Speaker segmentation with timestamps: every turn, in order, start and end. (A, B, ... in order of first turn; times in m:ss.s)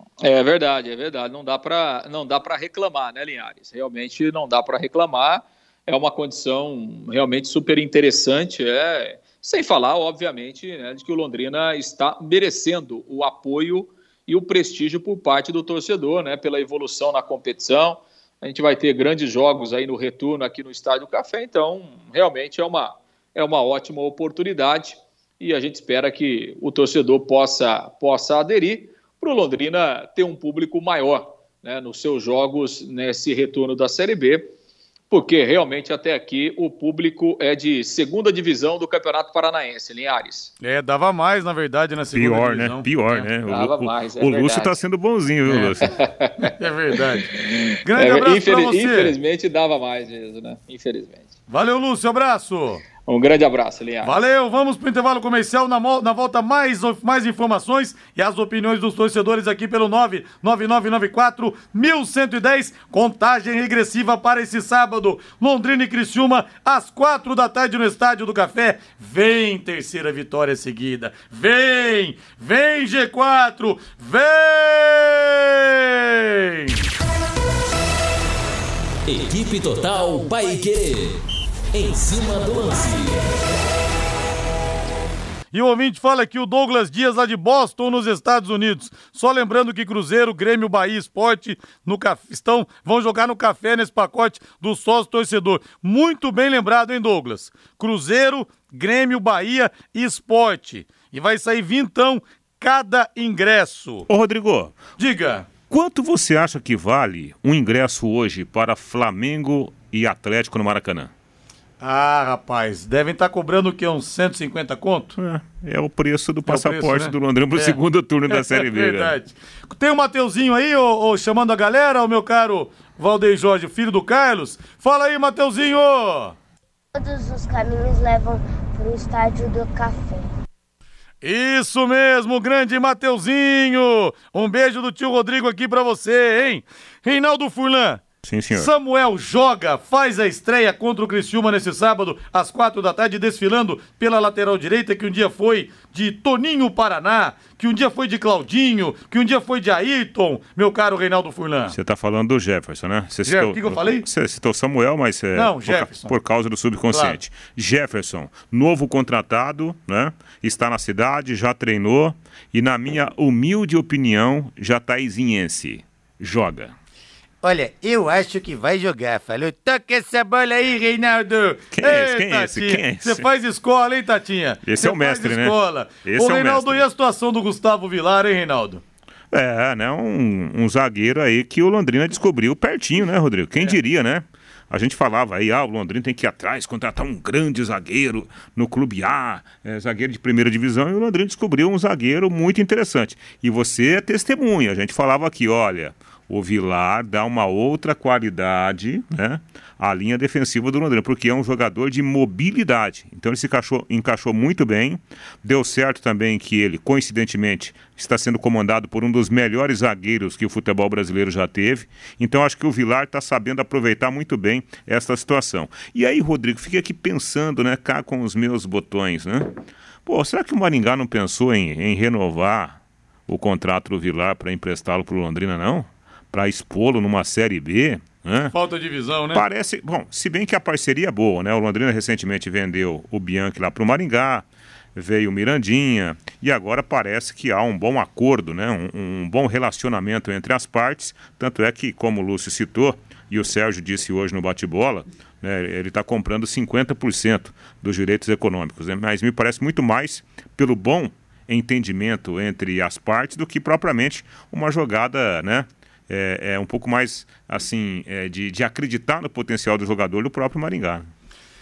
0:00.2-0:34.5 A
0:35.1-0:40.5 A
0:40.6-0:42.8 B
0:42.1-0:46.0 C
0:43.1-0:44.8 A
0:45.5-0:45.7 B
0:45.8-0:51.3 A
0:46.4-0:49.1 B
0:51.5-0:52.8 B
0:53.0-0:54.1 A
0:54.0-1:16.8 B
1:19.0-1:21.2 D
1:21.7-1:23.3 D
1:25.5-1:44.1 B
1:44.1-1:44.8 C
1:45.0-1:45.5 B
1:45.7-1:51.1 C
1:51.8-1:55.1 B
1:55.2-1:59.2 C
1:56.4-1:57.8 B
1:58.3-2:06.3 B
2:06.9-2:10.3 E
2:11.2-2:31.7 B
2:18.2-2:18.7 C
2:31.7-2:46.7 C
2:33.2-2:34.0 B
2:35.3-2:36.1 B
2:36.9-2:37.2 B
2:47.4-2:58.8 B
2:51.7-2:53.3 C
2:54.6-2:56.8 C
2:59.3-3:39.5 C
3:40.0-3:48.5 C
3:48.5-3:49.4 B
3:49.3-4:21.1 C